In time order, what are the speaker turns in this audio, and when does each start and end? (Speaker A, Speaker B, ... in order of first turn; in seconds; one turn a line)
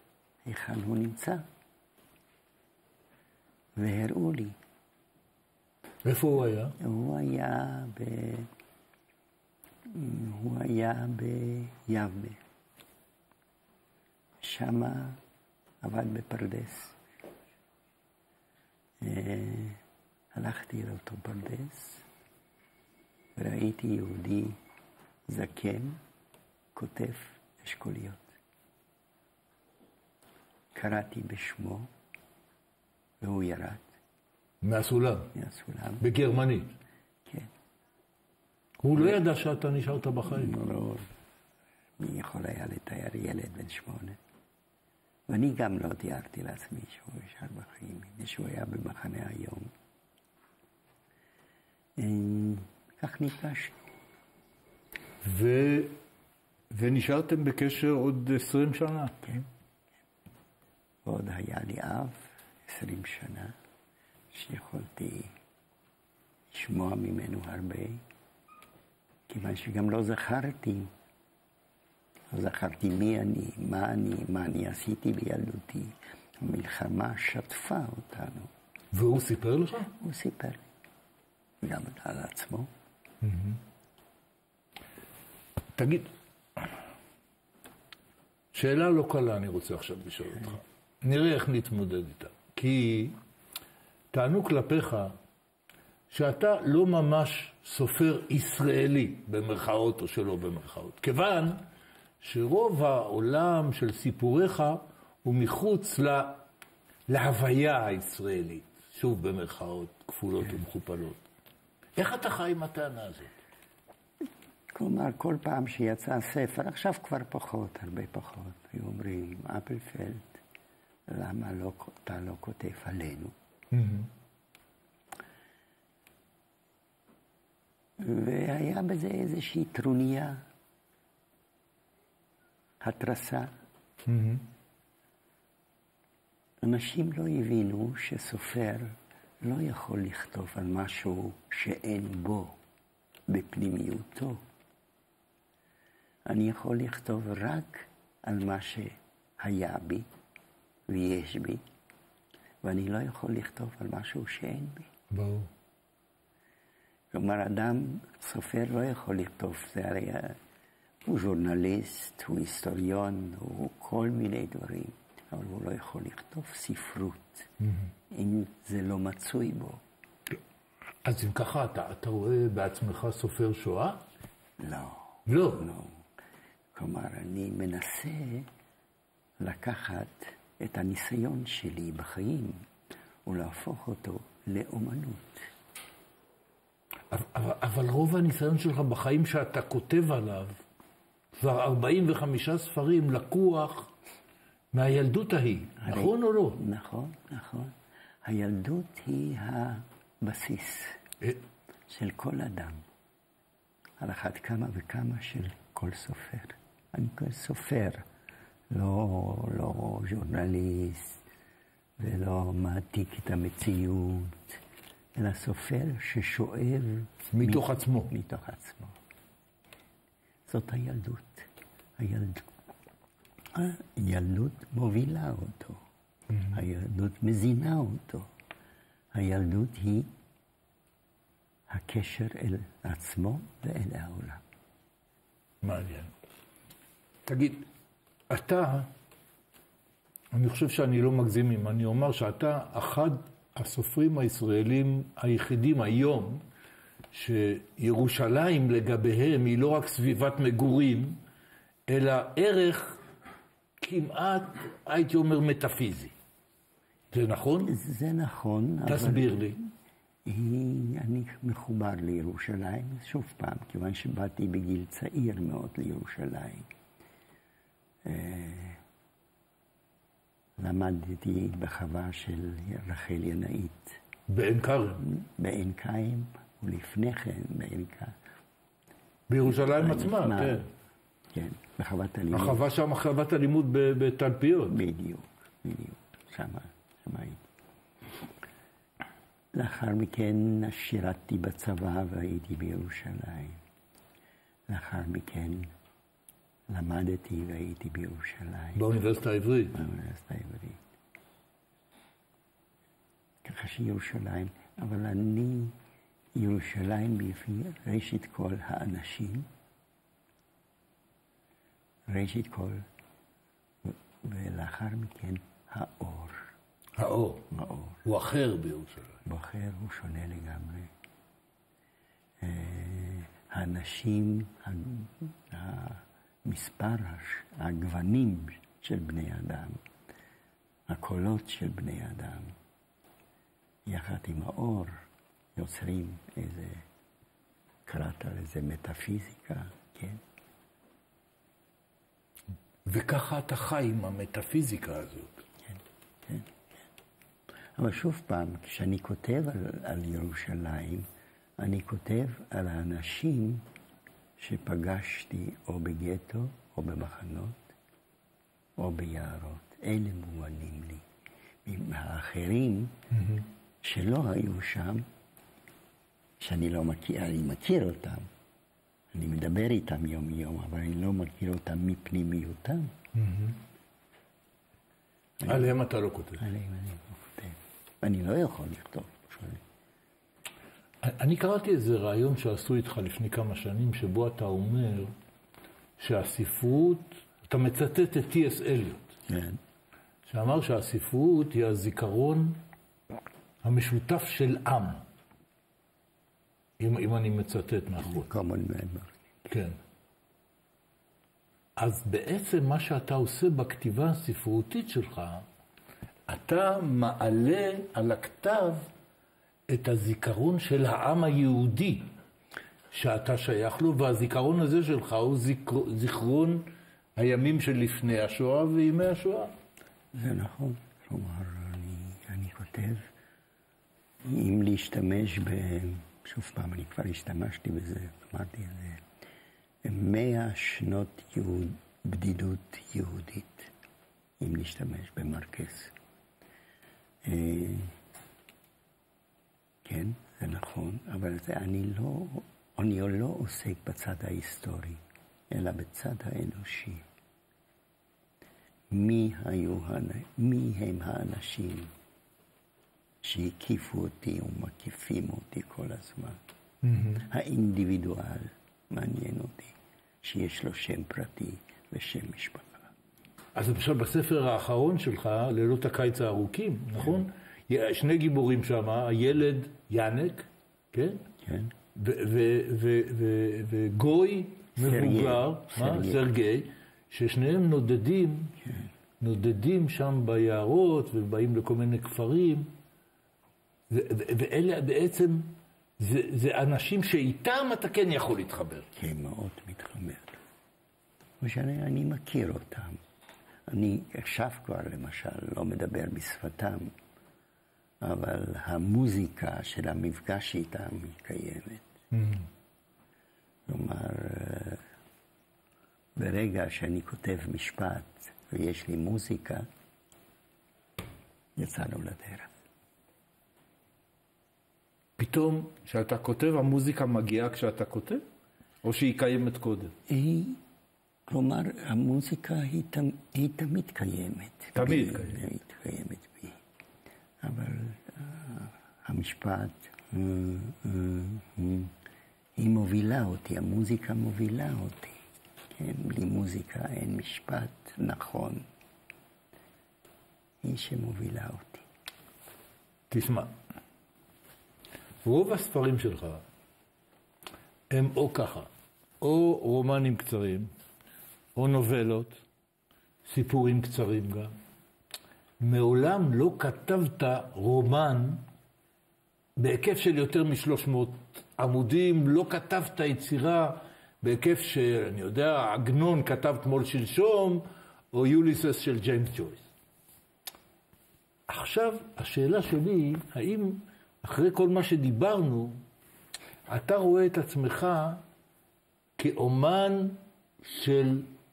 Speaker A: 0.4-1.5
Speaker A: 3.8-4.6
Speaker B: 6.0-6.8
Speaker A: 6.8-8.5
Speaker A: 9.8-12.4
Speaker A: 14.4-15.2
Speaker A: 15.8-17.0
Speaker A: 19.0-19.8
Speaker A: 20.3-22.1
Speaker A: 23.4-24.6
Speaker A: 25.3-26.0
Speaker A: 26.7-28.4
Speaker A: 30.7-31.9
Speaker A: 33.2-33.9
Speaker B: 34.6-35.3
Speaker A: 35.3-36.0
Speaker B: 36.0-36.8
Speaker A: 37.2-37.5
Speaker B: 38.8-40.6
Speaker A: 40.3-41.1
Speaker A: 42.0-44.2
Speaker A: 45.3-49.7
Speaker A: 52.0-53.8
Speaker B: 55.2-56.0
Speaker B: 56.7-59.5
Speaker A: 61.0-63.6
Speaker A: 64.3-65.3
Speaker A: 66.5-68.0
Speaker A: 69.3-70.9
Speaker A: 72.3-78.5
Speaker B: 78.9-79.9
Speaker A: 80.0-80.6
Speaker A: 81.6-82.7
Speaker B: 83.2-83.6
Speaker B: 85.8-86.1
Speaker B: 88.5-93.2
Speaker B: 94.1-95.2
Speaker B: 96.1-101.7
Speaker B: 102.2-106.4
Speaker B: 107.1-111.2
Speaker B: 112.0-113.3
Speaker A: 114.7-120.4
Speaker A: 121.1-123.3
Speaker B: 123.7-124.1
Speaker A: 128.0-130.4
Speaker A: 132.8-133.5
Speaker B: 134.1-134.5
Speaker A: 136.6-142.6
Speaker A: 143.3-144.4
Speaker A: 146.3-150.1
Speaker A: 150.9-151.6
Speaker A: 152.6-154.9
Speaker B: 155.1-155.5
Speaker A: 157.1-160.4
Speaker A: 161.1-167.5
Speaker A: 168.1-169.8
Speaker B: 171.1-174.0
Speaker A: 174.6-176.1
Speaker B: 175.3-175.7
Speaker A: 176.7-178.5
Speaker A: 179.4-182.7
Speaker A: 183.3-185.5
Speaker B: 187.1-190.6
Speaker B: 191.3-193.9
Speaker B: 194.7-196.6
Speaker A: 195.8-201.0
Speaker A: 201.9-202.8
Speaker A: 204.0-208.1
Speaker A: 208.7-211.2
Speaker A: 212.0-214.6
Speaker A: 215.2-219.0
Speaker B: 217.3-218.1
Speaker A: 220.5-222.5
Speaker A: 223.5-225.8
Speaker B: 226.3-226.6
Speaker A: 226.5-228.3
Speaker A: 229.1-230.1
Speaker A: 231.7-234.4
Speaker B: 235.6-236.1
Speaker B: 237.3-237.6
Speaker B: 238.3-238.9
Speaker B: 240.3-246.4
Speaker B: 247.1-251.2
Speaker B: 251.9-253.0
Speaker B: 253.8-256.1
Speaker B: 257.1-257.8
Speaker A: 257.7-259.6
Speaker B: 258.9-259.6
Speaker A: 260.2-266.7
Speaker A: 268.0-268.8
Speaker A: 270.6-274.0
Speaker B: 274.3-275.1
Speaker A: 275.0-278.2
Speaker B: 279.3-280.7
Speaker A: 279.5-280.6
Speaker A: 281.3-282.6
Speaker B: 282.3-284.8
Speaker A: 284.7-287.4
Speaker A: 289.5-293.6
Speaker A: 294.7-295.7
Speaker A: 296.7-298.8
Speaker B: 298.8-299.8
Speaker A: 299.7-300.8
Speaker A: 303.4-305.8
Speaker A: 306.3-309.5
Speaker A: 312.1-312.9
Speaker A: 313.8-316.5
Speaker B: 317.0-317.5
Speaker A: 317.5-318.0
Speaker B: 318.1-319.2
Speaker A: 319.3-320.9
Speaker A: 322.4-329.8
Speaker A: 330.9-332.6
Speaker A: 333.9-336.9
Speaker A: 337.9-340.2
Speaker B: 342.9-345.4
Speaker A: 345.7-346.7
Speaker A: 347.8-351.1
Speaker A: 351.6-353.7
Speaker A: 354.4-357.7
Speaker A: 358.8-361.1
Speaker A: 361.6-363.0
Speaker B: 363.1-363.5
Speaker A: 363.8-365.1
Speaker A: 366.4-368.3
Speaker A: 369.1-372.9
Speaker B: 373.1-373.6
Speaker A: 375.4-375.7
Speaker B: 375.4-376.5
Speaker A: 376.4-379.6
Speaker B: 381.0-385.1
Speaker B: 386.0-389.1
Speaker A: 389.3-389.6
Speaker B: 390.3-392.6
Speaker B: 393.6-395.1
Speaker B: 396.8-398.3
Speaker A: 398.0-399.2
Speaker B: 399.5-399.8
Speaker B: 401.8-405.5
Speaker B: 406.3-408.9
Speaker B: 409.7-412.1
Speaker B: 412.9-419.5
Speaker A: 420.1-423.1
Speaker A: 424.2-429.0
Speaker A: 429.8-433.7
Speaker A: 434.4-435.9
Speaker A: 437.2-437.9
Speaker A: 439.8-447.1
Speaker A: 448.9-451.9
Speaker A: 453.2-456.4
Speaker B: 456.8-457.3
Speaker A: 457.2-462.9
Speaker B: 463.6-471.2
Speaker A: 471.4-471.7
Speaker B: 471.9-478.6
Speaker A: 474.8-476.2
Speaker A: 478.6-478.9
Speaker B: 479.2-482.7
Speaker B: 483.9-488.9
Speaker A: 488.9-490.4
Speaker A: 491.4-493.0
Speaker A: 493.7-496.9
Speaker A: 498.0-501.9
Speaker B: 502.1-502.5
Speaker A: 503.7-504.8
Speaker A: 506.2-509.7
Speaker A: 511.6-512.5
Speaker B: 515.2-518.2
Speaker B: 518.8-520.0
Speaker A: 520.1-520.6
Speaker A: 521.3-526.6
Speaker B: 524.8-525.5
Speaker A: 527.4-532.0
Speaker A: 532.6-535.2
Speaker A: 535.7-538.7
Speaker A: 540.6-541.9
Speaker B: 543.1-543.5
Speaker B: 545.2-546.4
Speaker B: 547.9-548.7
Speaker B: 549.2-550.7
Speaker B: 551.6-552.4
Speaker B: 553.2-554.5
Speaker B: 555.6-558.4
Speaker B: 559.6-569.7
Speaker B: 571.5-575.8
Speaker B: 576.7-578.2
Speaker B: 579.2-581.3